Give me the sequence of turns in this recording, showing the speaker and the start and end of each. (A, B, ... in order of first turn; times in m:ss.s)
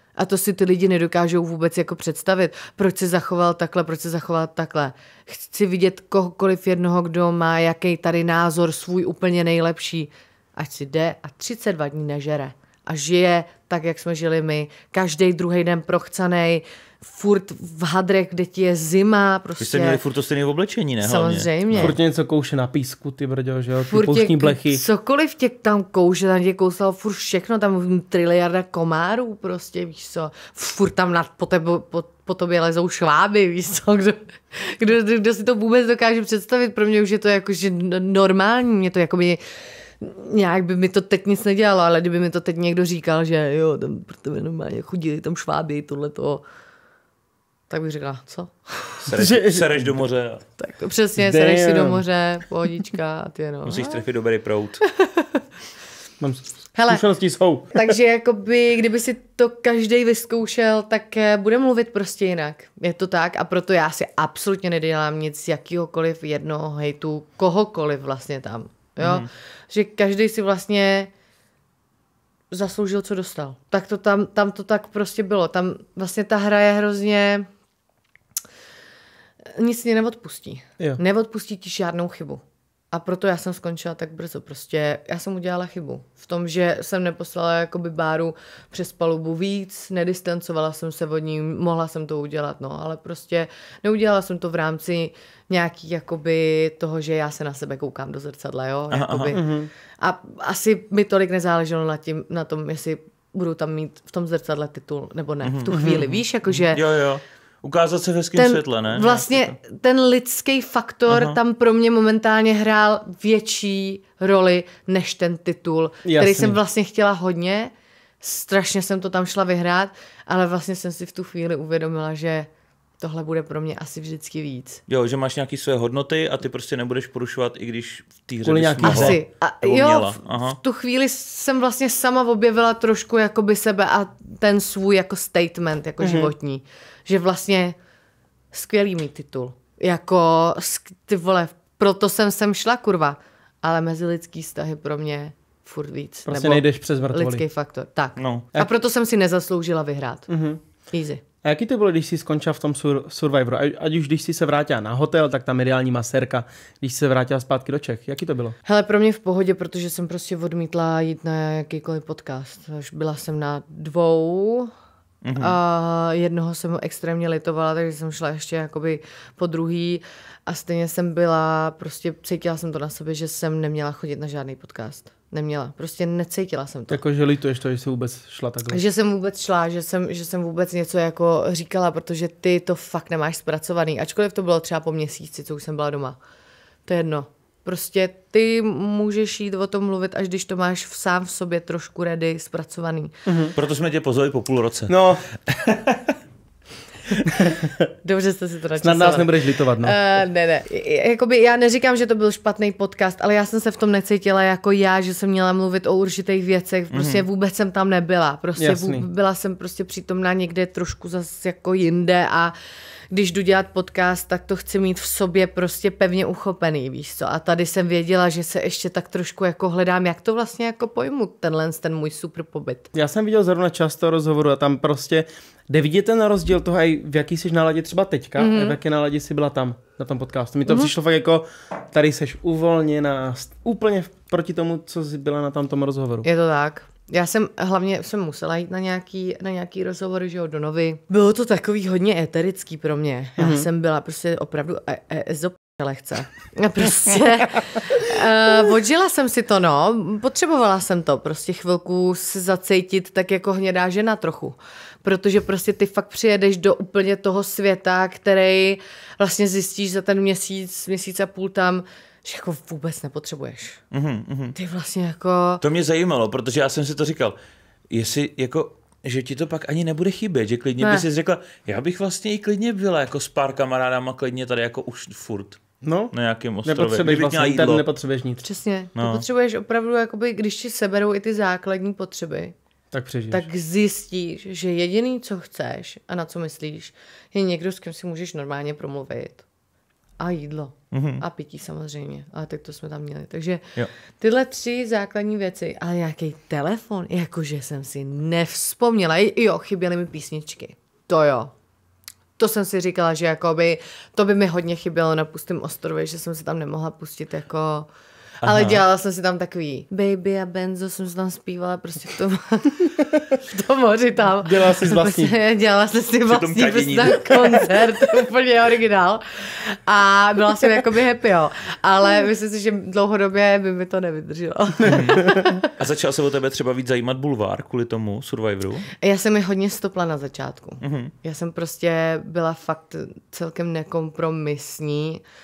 0:00.2-0:20.0 A
0:19.6-0:22.0 B
0:21.0-0:22.0 A
0:21.8-0:24.8 C
0:23.9-0:39.4 A
0:40.0-0:46.4 A
0:47.7-0:49.0 A
0:49.0-0:50.4 B
0:49.1-0:49.9 C
0:50.6-0:54.0 A
0:51.2-0:52.0 C
0:53.6-0:54.8 B
0:54.8-0:55.4 A
0:56.2-0:57.9 C
0:56.8-0:57.0 A
0:57.7-1:11.1 A
1:09.0-1:09.3 B
1:12.5-1:17.5 A
1:19.5-1:46.8 A
1:38.9-1:39.3 B
1:39.3-1:39.7 C
1:45.4-1:45.8 B
1:45.7-1:46.2 C
1:46.5-1:49.5 B
1:48.4-2:02.5 A
1:51.1-1:51.4 B
1:56.0-1:56.6 C
2:03.0-2:04.8 A
2:04.9-2:10.6 B
2:08.4-2:09.2 C
2:08.8-2:17.8 A
2:16.0-2:16.3 C
2:18.5-2:30.3 A
2:26.3-2:27.4 C
2:28.2-2:28.5 B
2:30.3-2:30.6 C
2:30.9-2:31.2 A
2:31.4-2:38.6 C
2:38.7-2:44.7 A
2:45.2-2:45.6 B
2:45.4-2:57.0 A
2:56.9-2:58.8 C
2:58.7-3:06.2 A
3:06.9-3:13.2 A
3:13.3-3:13.6 C
3:13.6-3:16.2 B
3:14.9-3:15.2 C
3:17.3-3:17.9 C
3:18.0-3:32.6 A
3:18.8-3:20.0 C
3:26.9-3:27.2 B
3:28.6-3:29.1 C
3:33.1-3:42.9 A
3:42.9-3:56.3 C
3:48.4-3:48.8 A
3:56.2-4:23.8 A
4:03.4-4:03.7 C
4:23.9-4:24.6 B
4:24.6-4:25.6 A
4:25.6-4:27.4 B
4:27.9-4:35.6 B
4:30.8-4:31.0 A
4:35.8-4:36.1 C
4:36.1-4:37.8 B
4:36.6-4:38.5 C
4:38.4-4:42.5 A
4:39.0-4:39.2 B
4:42.9-4:43.5 C
4:43.3-4:49.4 A
4:50.2-4:53.7 A
4:50.9-4:51.2 B
4:54.2-5:01.5 A
5:02.4-5:07.9 A
5:08.4-5:08.8 B
5:08.4-5:25.7 A
5:14.4-5:15.3 C
5:16.3-5:17.7 B
5:24.8-5:25.6 C
5:24.8-5:28.9 B
5:29.0-5:35.2 A
5:30.8-5:31.1 B